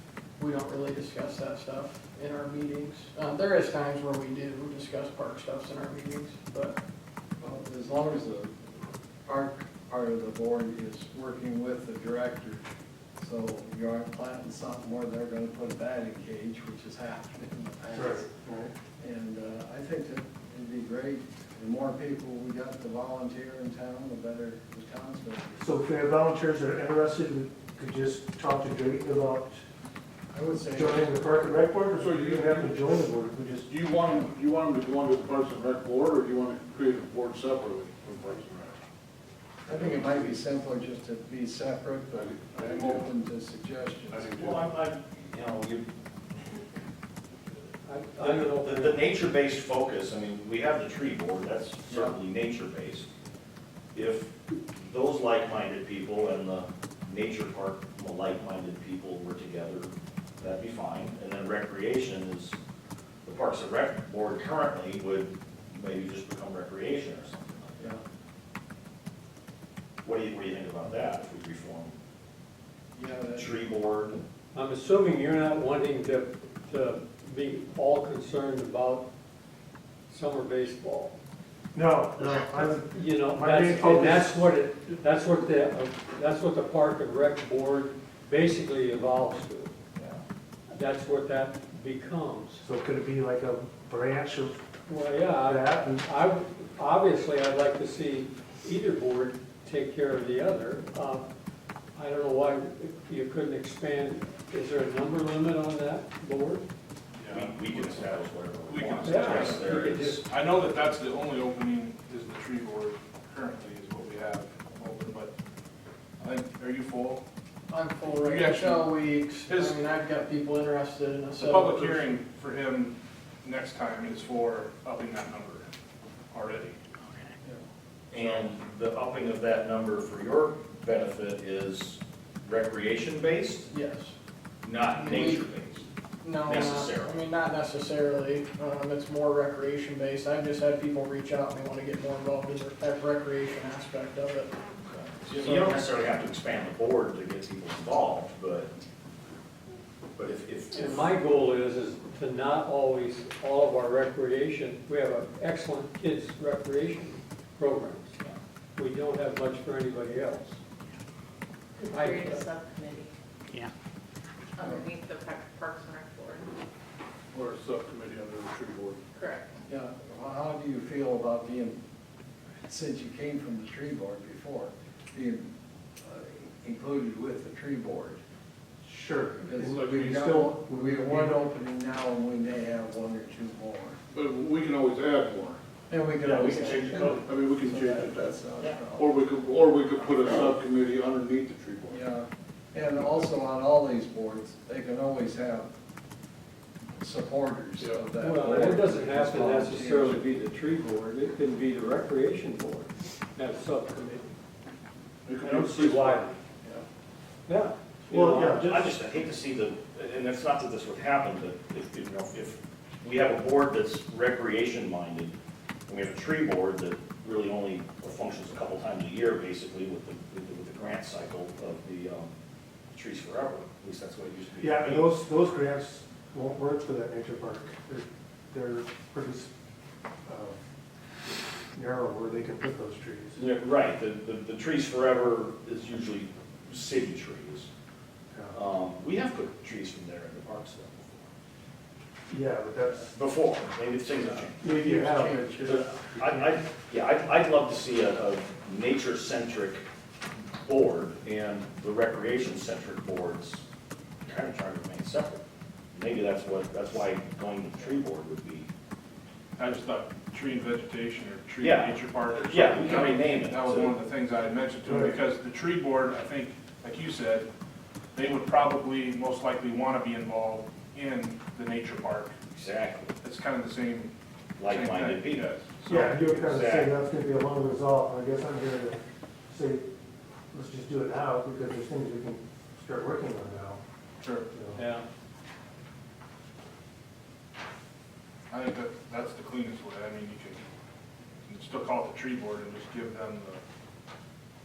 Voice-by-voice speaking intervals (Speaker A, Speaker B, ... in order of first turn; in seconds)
Speaker A: 0.4-6.8, 117.7-122.1, 133.7-134.1, 134.9-135.5, 136.2-144.5
Speaker B: 7.4-8.5, 9.2-12.6, 13.2-18.3, 19.0-25.6, 30.3-31.1, 39.7-44.3, 72.9-73.5, 169.7-171.8, 172.6-175.5, 176.0-178.2, 179.4-183.9, 185.9-189.1, 191.9-195.7, 197.0-200.2, 244.7-245.7
Speaker C: 17.9-18.7, 25.6-29.6, 30.7-33.7, 81.7-84.4, 92.6-94.7, 95.5-96.1, 178.8-181.4, 208.1-208.9, 224.6-229.5, 230.2-230.6, 231.7-233.4, 242.3-243.1, 244.6-246.3, 264.9-265.1, 275.9-279.9, 280.5-283.8, 284.5-284.8
Speaker D: 32.0-32.8, 33.7-38.8, 42.1-43.0, 44.1-44.6, 167.3-169.0, 184.1-185.6, 187.2-188.4, 188.9-192.0, 197.8-198.0, 205.2-206.8
Speaker E: 44.4-45.9, 48.2-53.1, 53.9-62.6, 63.2-68.0, 70.0-71.9, 73.3-74.2, 107.3-110.2, 128.1-133.7, 134.6-135.9, 136.4-137.2, 144.8-148.7, 150.2-151.2, 186.2-187.2, 208.5-215.3, 215.9-222.3, 222.9-225.1, 233.3-237.7, 238.5-241.3, 243.1-244.7, 245.6-249.8, 250.5-253.6, 254.2-255.4, 255.9-258.7, 261.6-264.0, 272.5-273.1, 274.6-275.4, 276.1-276.9
Speaker F: 47.9-49.0, 74.5-79.1, 80.1-81.2, 82.8-89.7, 90.7-92.6, 94.9-101.2, 102.0-106.7, 109.0-110.2, 150.7-158.2, 158.8-160.6, 161.9-162.5, 198.2-204.3, 205.4-206.3, 207.5-208.6, 284.8-285.1
Speaker G: 107.2-108.0, 108.7-109.7, 110.2-115.3, 116.2-117.2, 118.1-118.9, 119.5-119.8, 121.4-125.7, 126.3-126.8, 259.6-267.5, 268.1-272.3, 273.2-274.1, 274.6-276.2, 284.2-284.5, 288.5-290.6, 291.4-293.6
Speaker H: 161.8-163.1, 164.6-166.4, 169.1-169.5